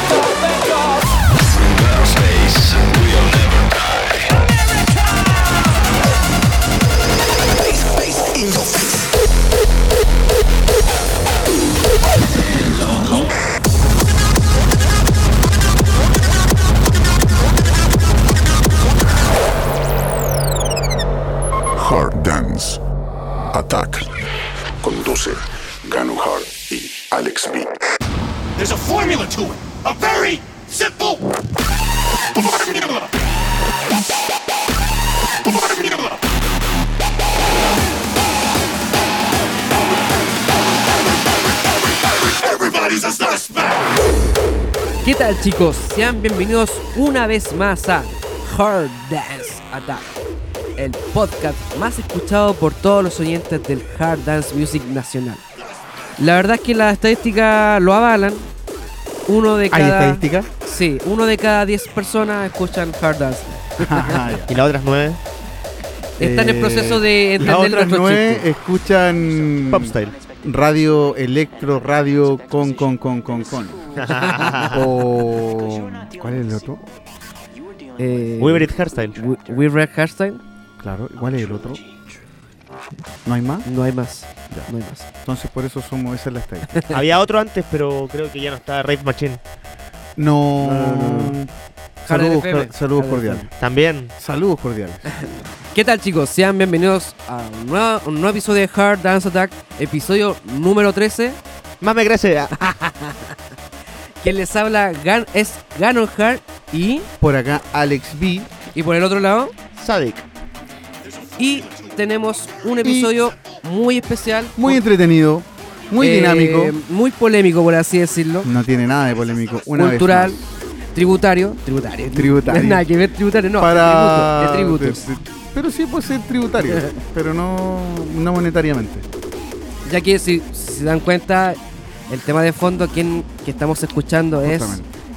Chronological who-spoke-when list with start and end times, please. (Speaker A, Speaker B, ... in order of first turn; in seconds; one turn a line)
Speaker A: 1.4-4.2
Speaker B: 21.8-22.8
Speaker B: 23.5-24.1
Speaker B: 24.8-27.8
Speaker C: 28.6-31.3
Speaker C: 32.3-33.1
Speaker C: 35.4-36.2
Speaker C: 42.4-44.0
Speaker D: 45.0-50.2
Speaker D: 50.8-55.4
Speaker D: 56.2-58.5
Speaker D: 59.3-64.3
Speaker E: 59.7-60.5
Speaker E: 63.8-64.5
Speaker F: 64.5-65.2
Speaker D: 66.2-68.1
Speaker E: 66.2-76.8
Speaker F: 67.4-68.5
Speaker F: 69.7-70.2
Speaker F: 74.0-74.9
Speaker D: 78.0-80.4
Speaker F: 78.4-79.2
Speaker E: 80.8-81.8
Speaker E: 83.2-83.7
Speaker D: 83.7-85.1
Speaker E: 85.2-86.8
Speaker F: 86.9-89.4
Speaker E: 90.2-91.5
Speaker D: 90.6-91.4
Speaker E: 92.0-93.5
Speaker D: 92.1-93.5
Speaker F: 93.6-94.1
Speaker E: 94.2-95.1
Speaker D: 95.1-101.4
Speaker F: 101.8-102.5
Speaker D: 102.5-103.3
Speaker D: 104.2-107.1
Speaker E: 107.2-108.5
Speaker D: 108.8-109.5
Speaker F: 109.8-110.2
Speaker D: 111.4-114.8
Speaker E: 112.8-113.2
Speaker E: 114.6-116.8
Speaker D: 116.0-118.5
Speaker E: 118.4-120.5
Speaker D: 119.8-120.4
Speaker D: 120.9-125.1
Speaker E: 122.1-122.9
Speaker E: 123.6-129.1
Speaker D: 129.9-134.8
Speaker E: 134.4-134.9